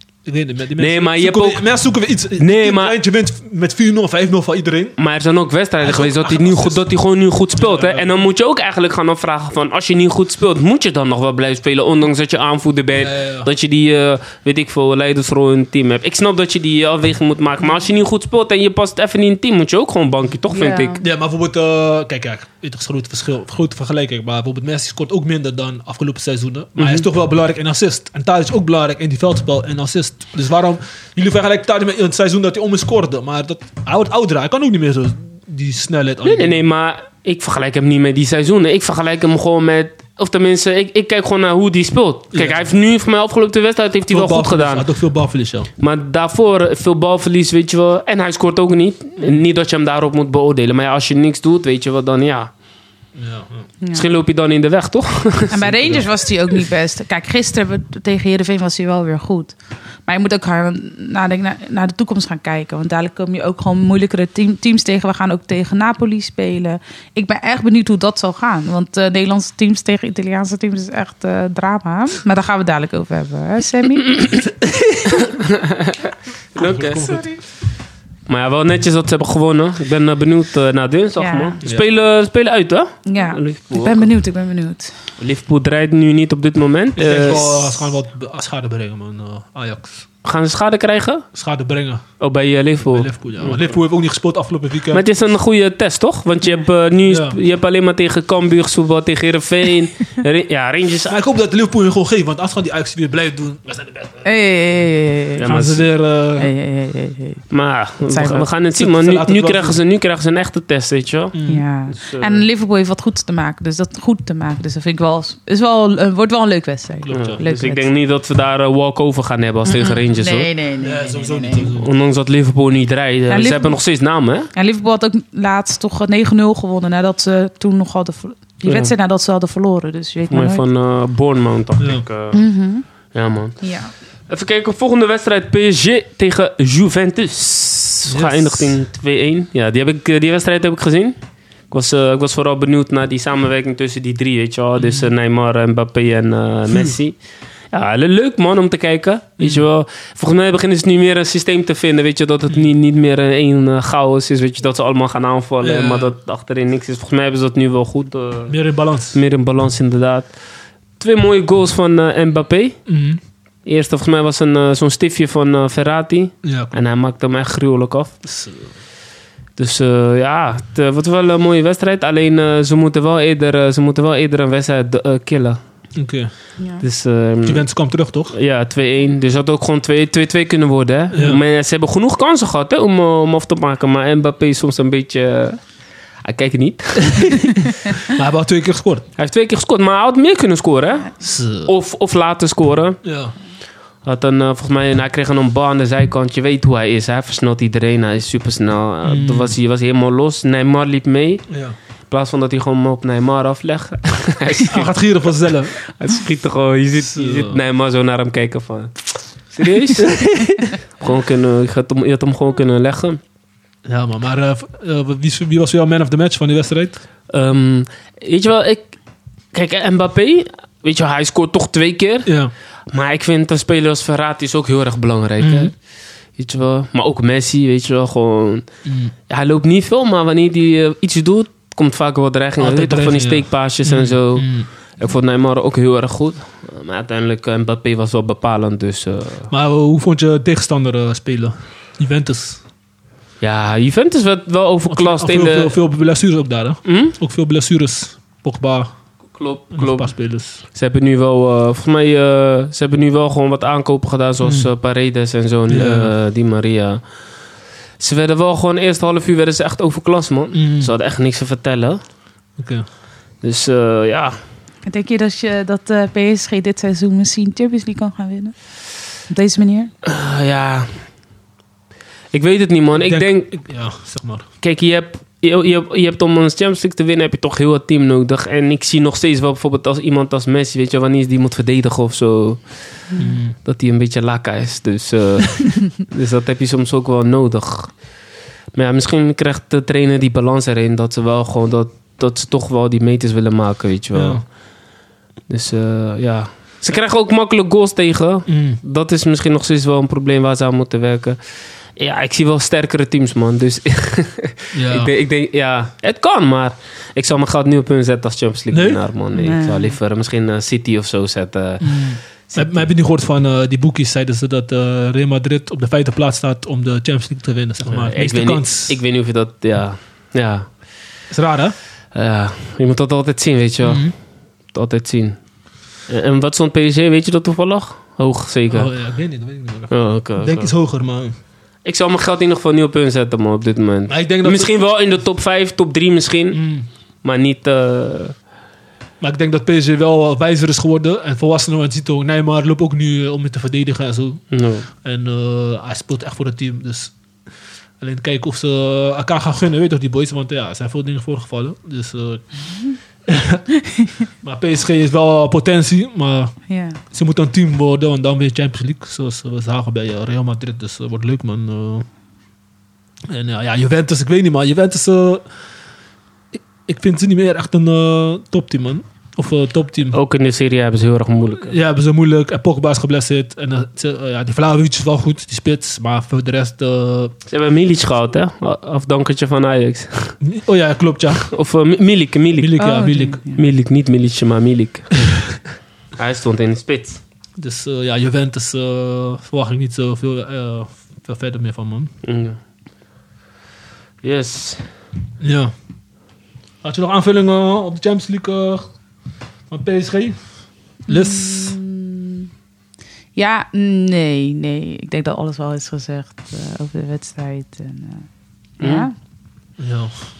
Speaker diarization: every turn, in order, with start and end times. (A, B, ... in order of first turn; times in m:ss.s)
0:00.2-0:05.0 A
0:00.8-0:01.6 B
0:02.4-0:03.0 B
0:05.0-0:21.0 B
0:05.8-0:06.8 A
0:07.6-0:08.1 A
0:13.0-0:13.5 A
0:20.5-0:21.0 C
0:21.0-0:36.6 A
0:26.8-0:27.0 B
0:36.2-0:44.9 B
0:42.3-0:42.7 A
0:44.1-0:45.7 A
0:45.8-0:52.5 B
0:53.2-0:53.6 A
0:53.9-0:56.0 B
0:55.5-0:59.5 C
0:55.8-0:56.0 A
1:00.1-1:14.3 C
1:14.5-1:15.3 A
1:15.1-1:17.2 B
1:16.6-1:17.2 A
1:17.0-1:17.4 C
1:18.3-1:24.1 B
1:21.2-1:21.6 C
1:21.6-1:21.9 A
1:23.1-1:24.9 C
1:25.2-1:27.6 B
1:27.0-1:30.1 A
1:30.2-1:31.3 B
1:31.3-1:32.0 A
1:32.2-1:33.6 B
1:32.8-1:35.1 A
1:34.9-1:41.2 B
1:37.1-1:37.4 A
1:41.1-1:44.2 A
1:44.2-1:45.5 C
1:45.4-1:45.9 B
1:45.4-1:46.5 A
1:46.4-1:47.4 C
1:47.5-1:51.4 B
1:48.0-1:48.5 C
1:48.8-1:49.8 A
1:51.3-1:51.6 A
1:51.5-1:57.9 C
1:51.9-1:52.4 B
1:57.0-1:57.4 A
1:57.1-2:00.5 B
1:59.6-2:01.7 C
2:00.8-2:01.9 A
2:01.6-2:04.5 B
2:03.3-2:03.8 C
2:04.5-2:10.6 C
2:08.6-2:08.9 B
2:10.3-2:12.4 B
2:11.8-2:12.0 A
2:12.3-2:12.8 C
2:13.1-2:13.7 B
2:13.6-2:13.9 C
2:14.3-2:21.2 B
2:18.1-2:18.7 A
2:21.7-2:27.2 B
2:24.8-2:25.1 A
2:26.7-2:27.0 A
2:27.7-2:38.6 B
2:29.4-2:29.7 A
2:35.6-2:36.1 A
2:38.5-2:39.2 A
2:39.1-2:40.3 B
2:41.0-2:42.8 B
2:42.9-2:43.2 A
2:43.7-2:48.2 B
2:46.4-2:46.8 A
2:48.2-2:48.7 A
2:49.6-2:55.6 B
2:56.0-2:56.3 A
2:56.8-2:57.6 B
2:57.4-2:58.3 A
2:58.3-3:05.6 B
3:01.1-3:01.4 A
3:06.2-3:07.6 B
3:07.0-3:09.1 A
3:09.2-3:13.0 B
3:11.2-3:11.7 A
3:13.0-3:13.4 A
3:14.0-3:21.5 B
3:19.0-3:19.5 A
3:21.5-3:21.8 A
3:22.1-3:24.9 B
3:24.6-3:25.8 A
3:25.8-3:33.2 B
3:27.0-3:27.6 A
3:30.0-3:30.7 A
3:33.9-3:37.0 A
3:37.3-3:38.9 B
3:39.5-3:42.3 B
3:42.2-3:42.5 A
3:42.9-3:45.8 B
3:45.4-3:45.7 A
3:46.4-3:48.7 B
3:48.8-3:49.1 A
3:49.3-3:59.5 B
3:52.6-3:54.7 A
3:59.5-4:02.6 A
4:03.4-4:05.8 B
4:04.9-4:08.9 A
4:06.8-4:07.2 B
4:09.4-4:17.1 B
4:09.7-4:10.6 A
4:14.4-4:14.7 A
4:15.7-4:16.1 A
4:18.0-4:22.0 B
4:20.5-4:20.9 A
4:22.6-4:22.8 A
4:23.4-4:24.4 B
4:24.9-4:28.6 C
4:29.2-4:29.9 C
4:30.0-4:31.0 B
4:32.3-4:33.6 B
4:33.0-4:34.5 A
4:34.6-4:43.0 B
4:43.2-4:43.6 A
4:43.6-4:48.0 B
4:48.7-4:54.4 B
4:54.1-4:54.4 A
4:55.5-5:01.4 B
4:58.5-4:58.8 A
5:02.0-5:12.9 B
5:04.7-5:05.1 A
5:08.7-5:09.0 A
5:09.3-5:10.0 C
5:11.8-5:19.0 A
5:17.9-5:20.7 B
5:21.3-5:21.8 A
5:22.1-5:24.1 B
5:23.8-5:24.1 A
5:24.7-5:25.4 B
5:26.1-5:28.9 B
5:28.7-5:31.4 A
5:29.9-5:30.7 B
5:31.8-5:36.6 B
5:34.1-5:34.7 A
5:36.5-5:36.9 A
5:37.2-5:38.4 B
5:39.2-5:47.1 A
5:44.5-5:44.9 B
5:48.0-5:52.6 A
5:53.3-5:53.7 A
5:53.9-5:54.1 C
5:54.4-5:56.6 A
5:56.7-5:57.0 C
5:57.1-6:02.1 A
6:03.3-6:05.4 A
6:06.5-6:10.2 A
6:10.1-6:11.8 B
6:11.6-6:17.3 A
6:17.5-6:20.4 B
6:20.4-6:21.5 A
6:21.5-6:22.9 B
6:22.6-6:23.4 A
6:22.8-6:23.6 C
6:23.5-6:25.6 B
6:26.2-6:27.2 B
6:27.6-6:32.1 A
6:32.2-6:32.6 B
6:34.2-6:34.9 B
6:35.4-6:35.7 A
6:36.8-6:38.9 A
6:39.7-6:40.4 A
6:41.1-6:41.8 A
6:41.1-6:42.5 C
6:43.4-6:48.3 C
6:48.8-6:49.1 B
6:48.8-6:49.1 C
6:49.8-6:50.1 A